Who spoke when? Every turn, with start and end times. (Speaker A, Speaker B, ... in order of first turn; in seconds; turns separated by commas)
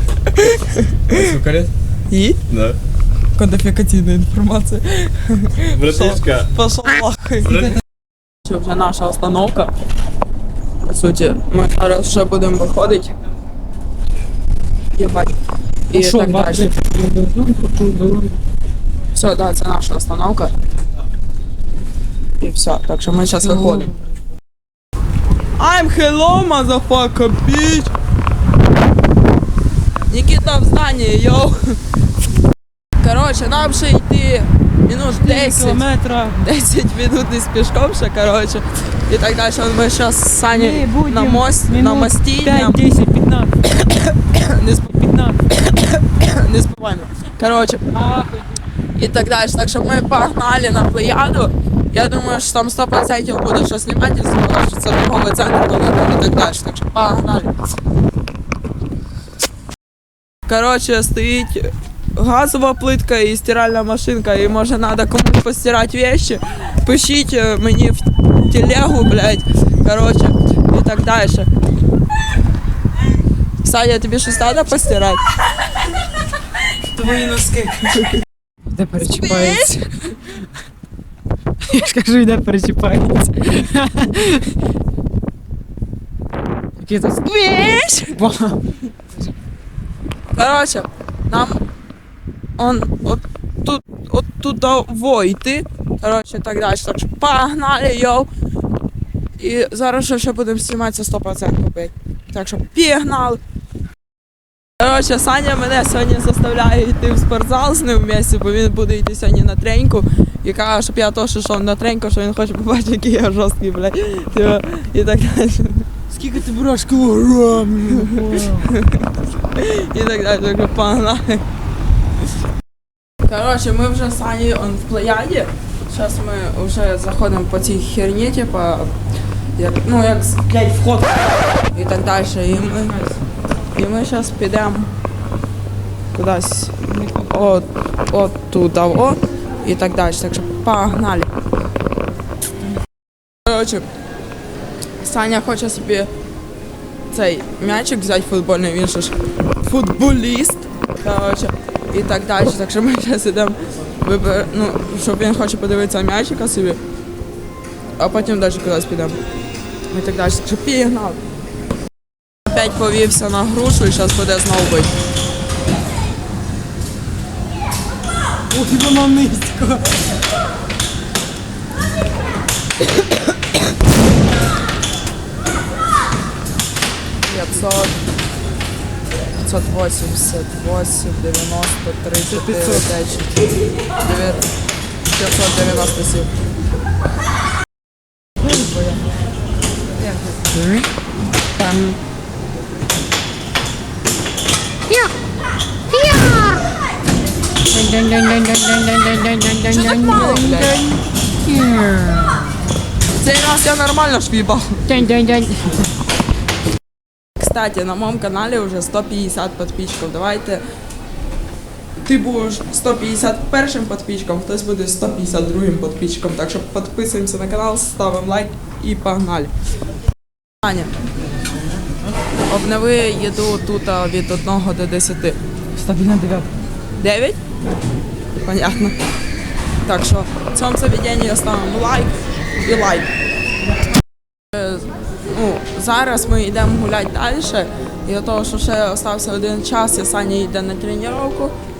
Speaker A: 0.3-1.2, Speaker B: 1.1-1.7, Speaker A: 2.1-2.4, Speaker B: 2.5-2.8, Speaker A: 3.4-7.7, Speaker B: 5.7-6.5, Speaker B: 7.5-7.7, Speaker A: 8.4-9.7, Speaker A: 10.8-13.1, Speaker A: 14.9-15.3, Speaker A: 15.9-16.7, Speaker C: 15.9-18.4, Speaker A: 19.1-20.5, Speaker A: 22.4-23.9, Speaker C: 23.4-23.9, Speaker A: 25.6-27.9, Speaker A: 30.1-31.8, Speaker A: 33.0-42.8, Speaker C: 35.0-36.4, Speaker C: 40.5-43.5, Speaker A: 43.8-47.8, Speaker C: 44.9-45.4, Speaker C: 47.9-48.5, Speaker A: 49.0-57.5, Speaker A: 60.5-71.5, Speaker A: 73.6-75.2, Speaker C: 76.9-78.0, Speaker C: 78.7-79.7, Speaker A: 79.0-79.9, Speaker C: 81.6-84.5, Speaker C: 86.8-88.6, Speaker A: 90.3-91.6, Speaker A: 92.6-98.3, Speaker A: 99.4-103.4, Speaker A: 104.8-115.9, Speaker C: 116.1-118.7, Speaker A: 118.6-121.4, Speaker A: 123.2-128.9, Speaker A: 129.6-133.0, Speaker C: 132.5-133.2, Speaker A: 133.7-134.9, Speaker A: 136.1-141.3, Speaker C: 136.9-137.6, Speaker A: 143.4-143.8, Speaker A: 145.0-146.1, Speaker A: 147.1-156.8, Speaker A: 158.0-159.2, Speaker A: 159.9-161.2, Speaker A: 162.5-164.9, Speaker C: 168.5-169.9, Speaker A: 177.3-178.0, Speaker A: 179.4-183.4, Speaker C: 182.3-182.8, Speaker A: 184.0-184.5, Speaker A: 185.1-186.3, Speaker A: 188.5-189.0, Speaker C: 190.1-190.8, Speaker C: 191.6-192.0, Speaker C: 195.9-196.5, Speaker C: 197.7-202.4, Speaker A: 199.6-200.8, Speaker A: 203.2-205.0, Speaker C: 204.9-205.8, Speaker A: 207.4-210.6, Speaker A: 212.0-219.5, Speaker A: 220.6-220.9, Speaker A: 222.5-225.4, Speaker C: 225.8-226.5, Speaker A: 227.0-227.4, Speaker A: 228.4-228.9, Speaker A: 229.8-233.1, Speaker A: 234.5-241.5